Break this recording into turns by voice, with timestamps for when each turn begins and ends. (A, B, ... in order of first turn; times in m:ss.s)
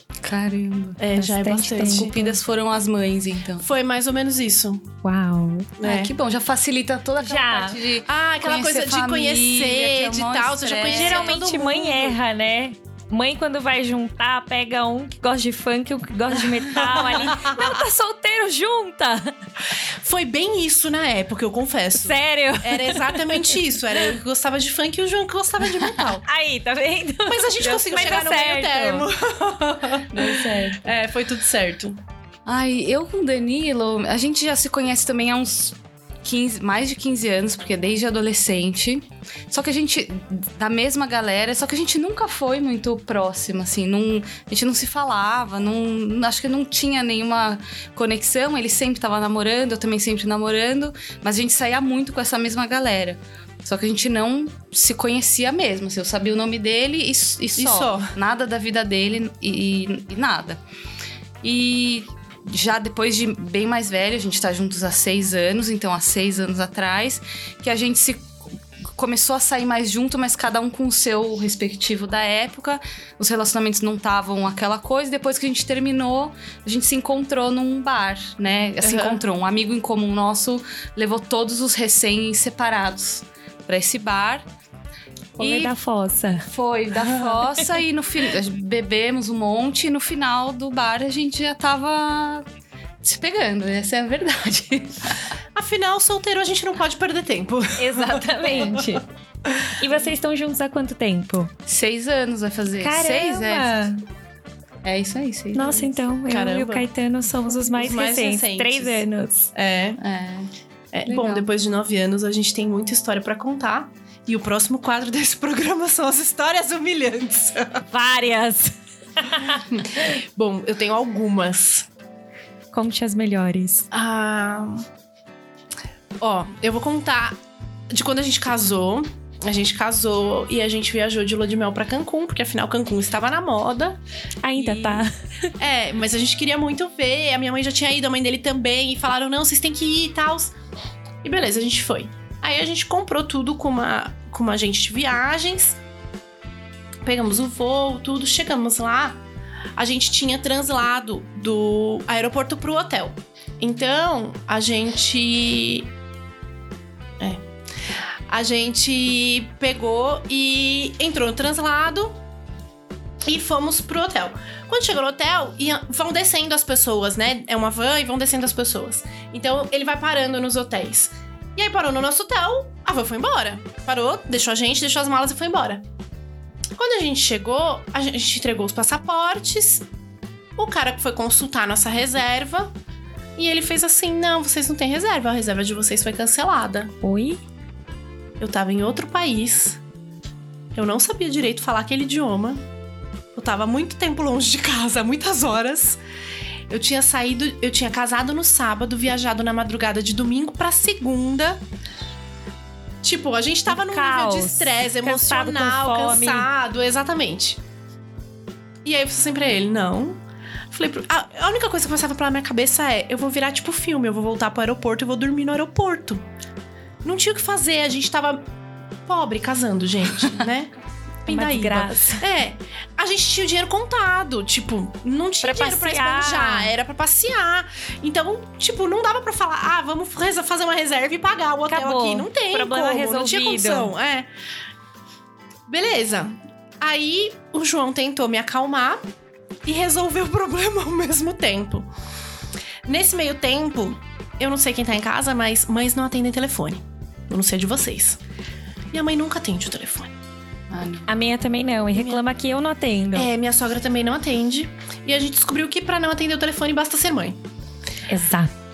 0:00.2-0:01.0 A
0:01.0-0:02.1 B
0:01.1-0:02.4 C
0:01.7-0:03.6 A
0:03.6-0:04.9 B
0:05.0-0:05.7 C
0:05.8-0:06.1 B
0:05.8-0:11.4 A
0:07.2-0:07.8 C
0:08.1-0:12.2 B
0:10.9-0:19.3 C
0:16.7-0:17.8 B
0:20.0-0:26.2 B
0:22.0-0:23.6 C
0:26.2-0:29.1 C
0:27.2-0:32.0 B
0:30.1-0:30.8 A
0:32.4-1:00.6 A
0:57.6-0:58.1 B
1:01.4-1:08.3 A
1:08.9-1:24.4 A
1:18.8-1:19.2 B
1:25.4-1:25.7 A
1:25.4-1:26.4 C
1:26.5-1:32.4 A
1:33.0-1:35.1 A
1:35.5-1:38.8 B
1:37.8-1:39.0 C
1:39.8-1:41.5 C
1:41.6-1:43.8 A
1:42.8-1:44.0 C
1:44.8-1:45.9 A
1:45.5-1:49.5 C
1:46.3-1:46.9 B
1:47.6-1:49.0 B
1:49.5-1:50.0 B
1:50.0-1:50.5 A
1:50.9-1:57.8 B
1:51.0-1:51.5 A
1:57.9-1:59.6 C
1:59.7-2:01.9 B
2:02.7-2:03.9 C
2:03.9-2:04.8 B
2:06.2-2:07.4 B
2:07.9-2:14.0 B
2:14.4-2:15.5 C
2:14.6-2:15.0 B
2:15.6-2:20.5 B
2:21.2-2:25.8 B
2:27.0-2:29.2 B
2:29.8-2:35.9 B
2:38.3-2:42.2 B
2:43.2-2:55.8 B
2:56.8-2:59.8 B
3:00.6-3:02.7 B
3:03.4-3:06.9 B
3:07.0-3:07.4 C
3:08.4-3:09.8 B
3:10.7-3:12.6 B
3:13.3-3:16.0 B
3:16.7-3:21.6 B
3:23.0-3:27.6 B
3:23.7-3:26.5 C
3:28.8-3:36.2 B
3:37.0-3:38.4 B
3:39.0-3:40.7 B
3:41.2-3:54.3 B
3:41.3-3:42.2 C
3:45.4-3:46.7 C
3:51.7-3:53.9 C
3:55.7-3:59.0 B
3:59.6-4:01.9 B
4:02.8-4:08.2 B
4:08.9-4:10.1 B
4:10.7-4:11.1 A
4:11.1-4:13.3 C
4:11.9-4:12.2 B
4:13.1-4:17.4 B
4:18.1-4:18.5 C